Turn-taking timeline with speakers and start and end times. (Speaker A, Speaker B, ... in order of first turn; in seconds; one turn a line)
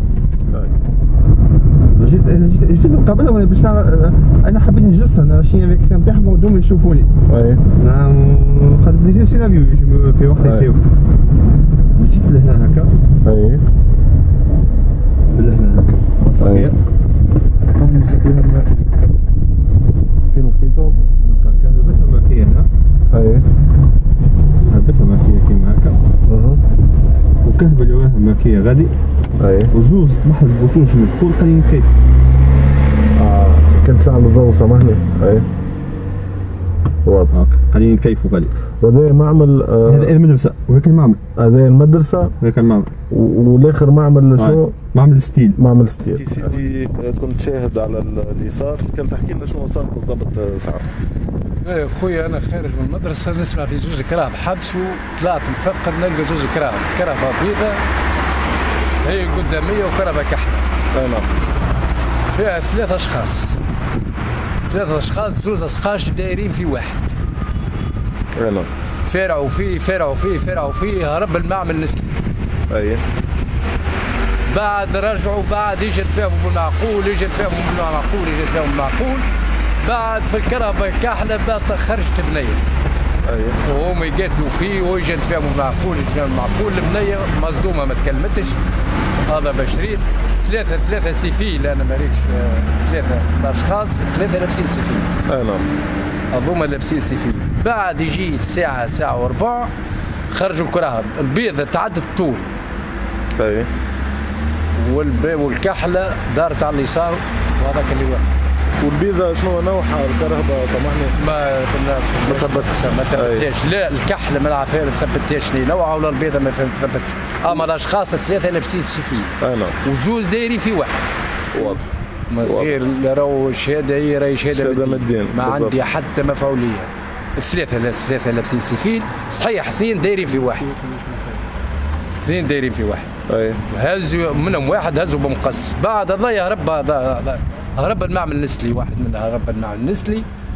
Speaker A: 0.5-0.8
Speaker B: 1.8-7.1
Speaker A: 7.3-7.7
Speaker B: 7.8-10.8
Speaker A: 10.4-10.7
Speaker B: 12.0-13.0
Speaker A: 13.2-13.7
Speaker B: 15.3-16.8
Speaker A: 16.4-16.7
Speaker B: 17.8-18.9
Speaker A: 20.3-21.0
Speaker B: 21.3-22.7
Speaker A: 23.1-23.5
Speaker B: 24.7-26.0
Speaker A: 26.2-26.6
Speaker B: 27.4-28.9
Speaker A: 29.4-29.7
Speaker B: 29.7-31.9
Speaker A: 33.1-35.5
Speaker A: 37.0-37.4
Speaker B: 37.3-38.5
Speaker A: 38.8-40.1
Speaker B: 39.9-41.2
Speaker A: 41.4-42.4
Speaker B: 42.4-42.9
Speaker A: 43.1-44.8
Speaker B: 44.4-45.6
Speaker A: 45.6-50.9
Speaker C: 51.6-57.9
Speaker C: 59.0-60.7
Speaker A: 60.9-61.3
Speaker C: 62.3-63.6
Speaker C: 64.7-67.1
Speaker A: 68.3-68.7
Speaker C: 69.0-72.2
Speaker A: 72.7-73.0
Speaker C: 74.5-79.3
Speaker C: 79.8-82.6
Speaker A: 83.2-83.6
Speaker C: 83.6-88.6
Speaker C: 89.3-95.1
Speaker A: 95.3-95.7
Speaker C: 96.3-99.7
Speaker C: 100.3-102.5
Speaker A: 103.4-103.7
Speaker C: 104.7-108.3
Speaker A: 108.8-111.2
Speaker C: 111.2-121.0
Speaker A: 112.2-113.5
Speaker A: 119.4-119.8
Speaker A: 121.5-121.8
Speaker C: 122.3-130.7
Speaker A: 122.4-122.9
Speaker A: 124.5-125.8
Speaker B: 130.8-131.3
Speaker C: 132.2-133.1
Speaker A: 133.3-133.6
Speaker C: 133.7-140.3